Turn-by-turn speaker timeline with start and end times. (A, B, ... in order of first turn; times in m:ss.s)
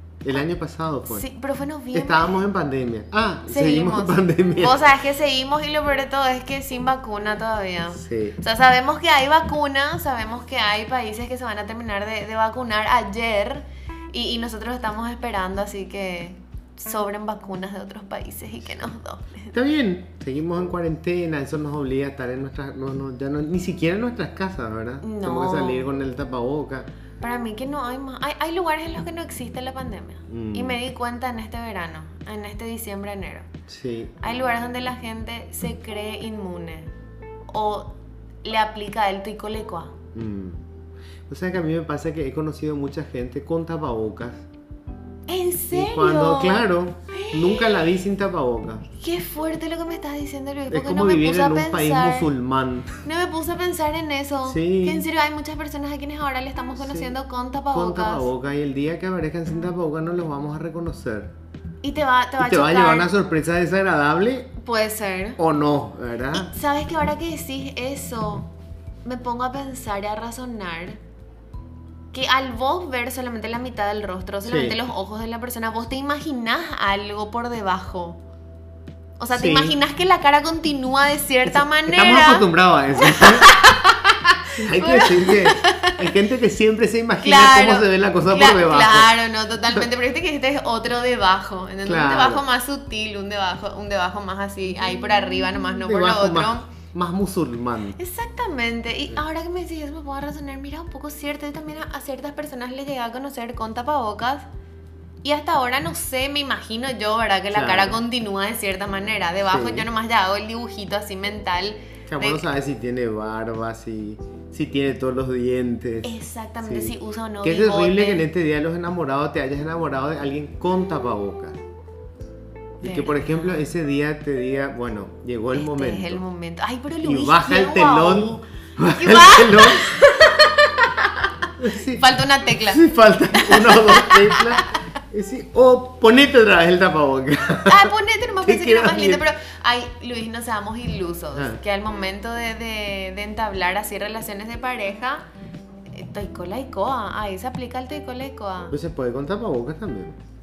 0:00.2-0:01.3 A
0:01.1-0:02.4 B
0:01.9-0:04.8 A
0:03.4-0:19.5 B
0:08.0-0:08.4 A
0:19.5-0:26.9 A
0:25.0-0:25.9 B
0:27.2-0:33.5 B
0:30.3-0:30.8 A
0:33.7-0:34.2 A
0:34.2-0:36.9 B
0:37.5-0:39.9 B
0:40.1-0:40.6 A
0:41.3-0:44.5 A
0:45.3-0:47.9 B
0:45.7-0:48.8 A
0:49.0-0:52.3 B
0:50.7-0:53.0 A
0:53.0-0:58.3 B
0:54.4-0:55.0 A
0:56.8-0:57.1 A
0:57.7-1:01.3 A
1:01.8-1:03.1 B
1:02.4-1:04.5 A
1:04.6-1:05.4 B
1:05.4-1:06.5 A
1:06.3-1:08.5 B
1:09.0-1:11.0 B
1:12.1-1:18.2 B
1:14.4-1:14.8 A
1:19.2-1:26.0 B
1:19.3-1:19.8 A
1:21.4-1:23.6 A
1:24.6-1:29.2 A
1:27.2-1:36.6 B
1:31.8-1:32.4 A
1:35.8-1:38.0 A
1:38.0-1:44.4 B
1:45.2-1:52.4 B
1:47.5-1:48.0 A
1:49.5-1:49.9 A
1:52.1-2:01.6 A
1:56.0-1:58.2 B
2:02.8-2:06.2 A
2:02.8-2:03.6 B
2:05.5-2:14.7 B
2:07.0-2:10.1 A
2:11.6-2:19.2 A
2:17.6-2:25.2 B
2:21.3-2:21.6 A
2:25.9-2:28.7 B
2:28.7-2:30.2 A